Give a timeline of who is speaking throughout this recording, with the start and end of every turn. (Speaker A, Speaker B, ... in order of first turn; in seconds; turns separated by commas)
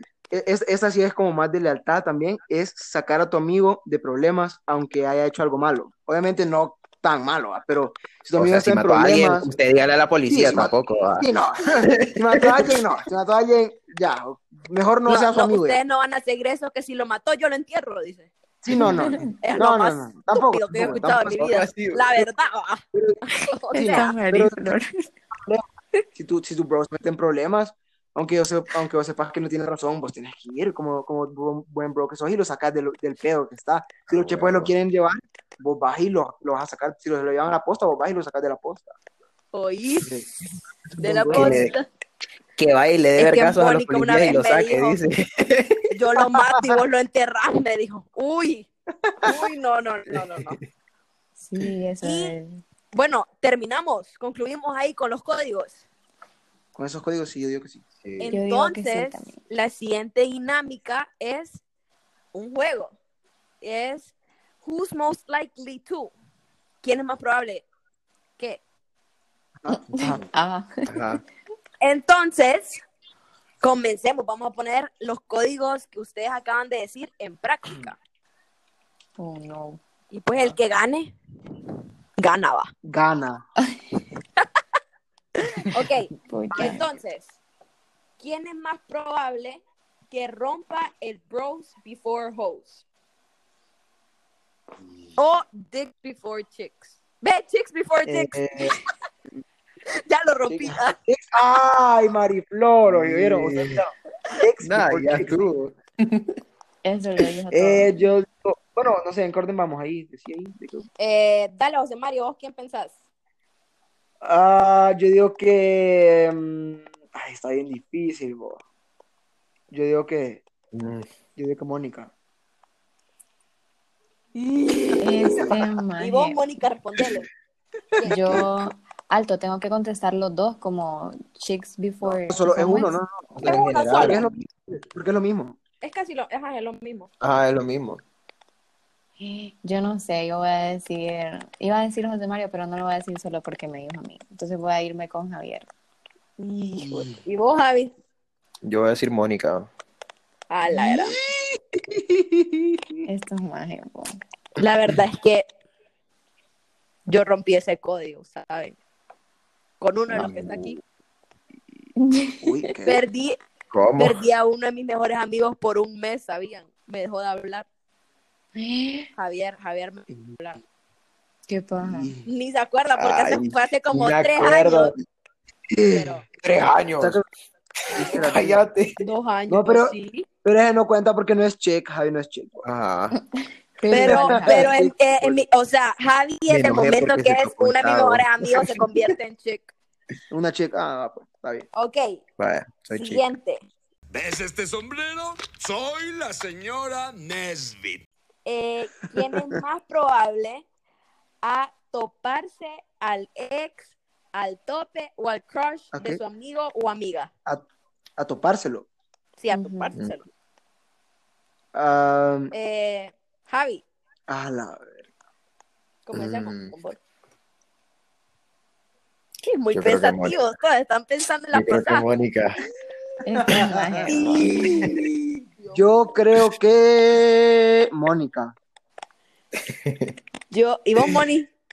Speaker A: 0.3-9.5, Speaker B: 8.4-11.3, Speaker A: 10.3-15.8, Speaker B: 11.8-12.8, Speaker C: 15.1-18.3, Speaker A: 18.6-21.4, Speaker D: 19.0-19.3, Speaker C: 19.4-24.2, Speaker B: 21.4-22.3, Speaker D: 23.7-25.1, Speaker A: 23.8-24.6, Speaker A: 25.3-39.0, Speaker B: 34.1-34.7, Speaker C: 39.5-40.2, Speaker A: 41.0-41.7, Speaker C: 41.0-41.9, Speaker B: 41.3-41.7, Speaker B: 42.6-45.8, Speaker C: 43.2-45.0, Speaker C: 45.9-48.7, Speaker A: 46.3-46.8, Speaker C: 49.2-50.6, Speaker D: 51.4-52.6, Speaker C: 52.0-52.4, Speaker C: 52.9-55.8, Speaker A: 56.8-57.8, Speaker B: 58.0-58.3, Speaker C: 58.2-61.6, Speaker D: 58.3-59.4, Speaker C: 62.3-62.9, Speaker C: 63.6-64.1, Speaker C: 64.6-66.1, Speaker C: 66.8-67.7, Speaker A: 69.6-70.2, Speaker D: 69.7-70.9, Speaker B: 70.9-71.2, Speaker C: 71.8-72.8, Speaker C: 73.6-78.0, Speaker D: 79.2-79.8, Speaker C: 80.1-81.1, Speaker C: 82.2-82.7, Speaker A: 82.8-83.5, Speaker C: 85.6-87.4, Speaker D: 86.3-86.8, Speaker C: 88.2-92.8, Speaker C: 95.2-98.8, Speaker A: 98.0-98.8, Speaker C: 100.1-101.0, Speaker A: 100.5-105.5, Speaker B: 102.9-103.8, Speaker B: 104.6-106.3, Speaker D: 106.8-108.0, Speaker A: 107.5-110.8, Speaker C: 111.0-113.0, Speaker A: 114.2-118.6, Speaker A: 119.7-120.4, Speaker B: 120.7-121.1, Speaker A: 121.4-122.1, Speaker C: 124.3-127.3, Speaker D: 125.0-126.4, Speaker C: 128.0-128.4, Speaker D: 128.0-133.0, Speaker A: 132.0-135.6, Speaker B: 133.3-134.2, Speaker C: 133.4-134.2, Speaker C: 135.8-137.1, Speaker B: 137.2-138.0, Speaker D: 139.2-145.7, Speaker C: 146.4-147.9, Speaker A: 146.8-147.2, Speaker B: 148.6-149.7, Speaker C: 150.5-151.2, Speaker D: 153.1-154.2, Speaker C: 154.6-155.5, Speaker C: 157.1-158.8, Speaker C: 159.8-160.8, Speaker B: 160.1-160.8, Speaker D: 162.0-162.7, Speaker A: 162.4-163.0, Speaker C: 162.8-163.4, Speaker B: 163.7-164.2, Speaker C: 164.0-167.7, Speaker D: 168.6-169.1, Speaker C: 169.2-170.6, Speaker D: 171.5-172.1, Speaker A: 171.8-172.3, Speaker C: 172.3-174.9, Speaker B: 173.0-175.0, Speaker A: 175.7-176.2, Speaker C: 175.9-176.2, Speaker B: 176.4-177.2, Speaker A: 177.0-177.3, Speaker B: 177.9-179.0, Speaker A: 177.9-178.6, Speaker C: 179.0-180.3, Speaker A: 179.5-182.7, Speaker B: 182.7-183.2, Speaker D: 183.1-184.7, Speaker C: 183.9-189.7, Speaker A: 183.9-185.4, Speaker B: 186.5-189.1, Speaker A: 190.3-191.7, Speaker C: 191.8-192.2, Speaker B: 192.4-193.2, Speaker C: 192.9-193.7, Speaker E: 194.1-198.1, Speaker C: 198.4-200.7, Speaker C: 201.4-207.3, Speaker A: 205.9-206.2, Speaker A: 208.2-208.9, Speaker C: 209.4-210.2, Speaker D: 209.5-209.9, Speaker A: 211.7-212.5, Speaker C: 212.5-213.8, Speaker A: 214.3-215.0, Speaker C: 216.1-217.0, Speaker B: 216.1-216.7, Speaker C: 219.4-222.1, Speaker B: 219.7-220.4, Speaker B: 221.5-222.6, Speaker D: 223.2-224.5, Speaker A: 223.3-224.3, Speaker C: 224.1-225.9, Speaker B: 224.4-225.1, Speaker A: 225.7-228.6, Speaker B: 229.7-230.1, Speaker C: 230.5-231.5